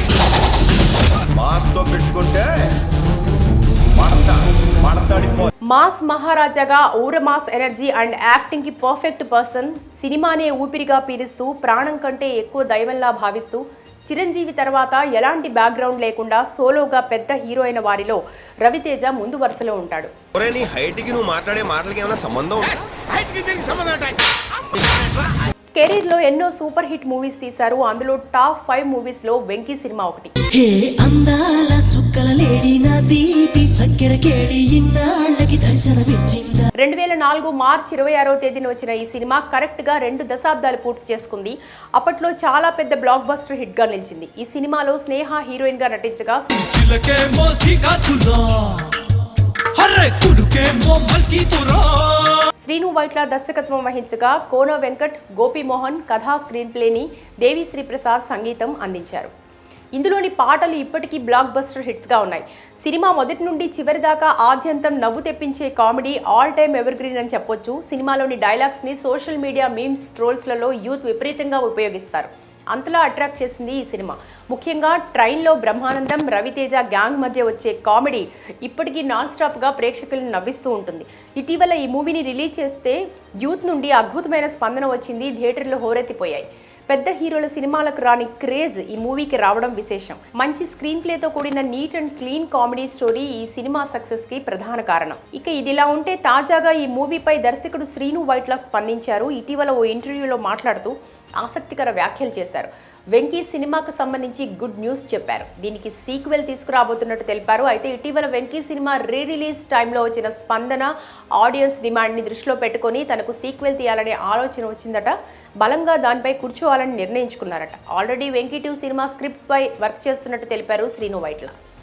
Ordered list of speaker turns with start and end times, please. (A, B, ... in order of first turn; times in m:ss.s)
0:01.4-0:02.7 A
0:04.0-0:05.5 A
0:05.7-0:20.1 B
0:20.3-0:24.1 A
0:24.8-0:25.1 A
0:25.7-0:30.3 B
0:30.5-0:36.7 C
0:36.8-0:46.6 B
0:46.6-0:48.9 D
0:49.7-0:52.4 D
0:52.6-0:59.3 B
0:59.9-2:01.5 B